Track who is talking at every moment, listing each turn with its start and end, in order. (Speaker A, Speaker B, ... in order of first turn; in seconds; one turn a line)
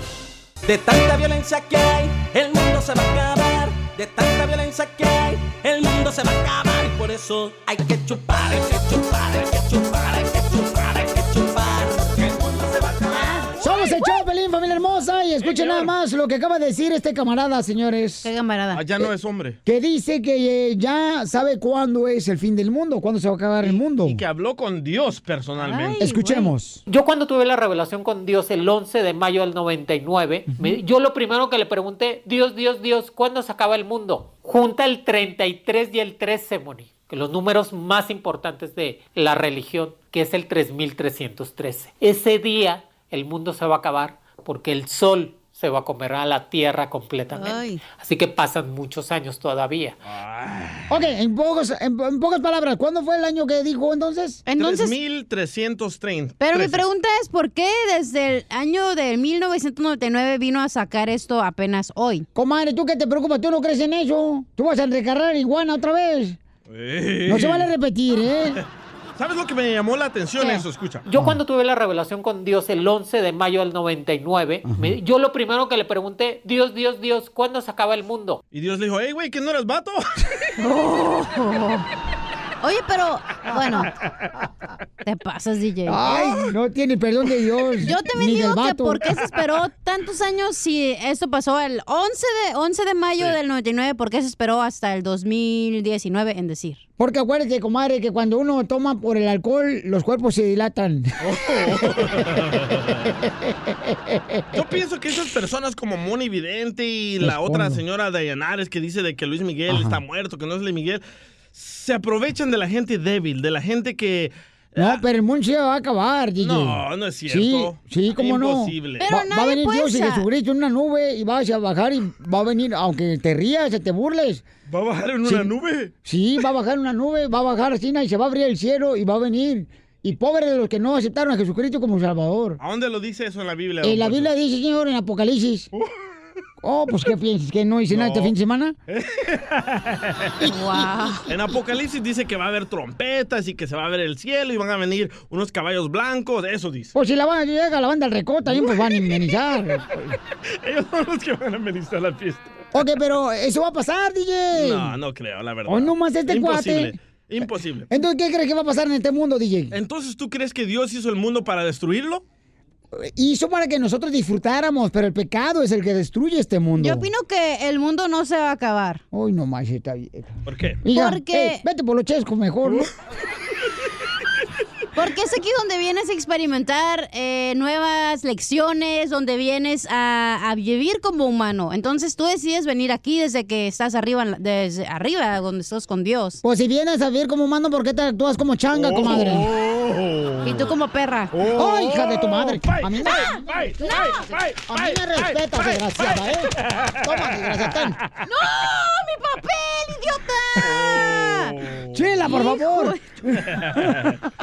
Speaker A: 0.7-13.5
Speaker B: 13.2-13.9
Speaker C: 13.6-18.3
Speaker D: 15.4-15.9
Speaker B: 18.2-18.8
Speaker D: 18.7-19.6
Speaker C: 19.6-24.2
Speaker D: 23.6-26.0
Speaker B: 25.6-26.5
Speaker C: 26.0-26.8
Speaker E: 26.9-50.0
Speaker B: 47.4-47.8
Speaker D: 50.0-50.9
Speaker C: 50.9-54.4
Speaker B: 54.5-54.9
Speaker D: 54.6-56.8
Speaker B: 56.4-62.3
Speaker C: 62.4-66.4
Speaker D: 66.7-67.7
Speaker C: 67.3-68.6
Speaker D: 69.2-71.1
Speaker E: 71.1-78.4
Speaker C: 71.1-71.4
Speaker C: 74.7-75.0
Speaker D: 78.5-80.0
Speaker B: 80.6-81.9
Speaker B: 82.6-83.9
Speaker B: 85.0-86.2
Speaker C: 85.9-89.0
Speaker B: 87.8-96.8
Speaker C: 97.0-102.3
Speaker D: 101.2-103.1
Speaker C: 103.1-104.4
Speaker D: 104.5-111.0
Speaker C: 107.2-107.8
Speaker C: 109.7-110.0
Speaker D: 111.5-115.0
Speaker C: 114.8-124.4
Speaker D: 116.4-119.1
Speaker B: 119.0-120.2
Speaker D: 124.7-125.9
Speaker C: 125.2-125.5
Speaker C: 126.0-132.6
Speaker D: 132.6-134.3
Speaker C: 133.8-135.7
Speaker C: 136.6-138.8
Speaker D: 137.9-138.3
Speaker D: 138.9-140.4
Speaker B: 140.4-141.2
Speaker D: 141.3-146.9
Speaker C: 146.9-150.1
Speaker D: 150.6-152.5
Speaker C: 152.7-154.9
Speaker D: 154.5-157.9
Speaker C: 155.7-156.9
Speaker C: 157.9-159.8
Speaker D: 159.7-162.2
Speaker C: 162.9-167.1
Speaker B: 166.8-169.0
Speaker C: 169.1-172.9
Speaker D: 170.5-170.8
Speaker B: 170.9-171.6
Speaker B: 174.9-186.4
Speaker C: 186.4-189.5
Speaker D: 188.7-190.7
Speaker B: 190.4-191.3
Speaker D: 191.3-195.4
Speaker C: 191.6-194.0
Speaker B: 193.0-194.4
Speaker C: 194.6-198.0
Speaker D: 196.6-197.3
Speaker B: 198.3-201.6
Speaker D: 200.6-202.2
Speaker C: 201.9-204.1
Speaker B: 202.2-203.2
Speaker D: 203.4-204.2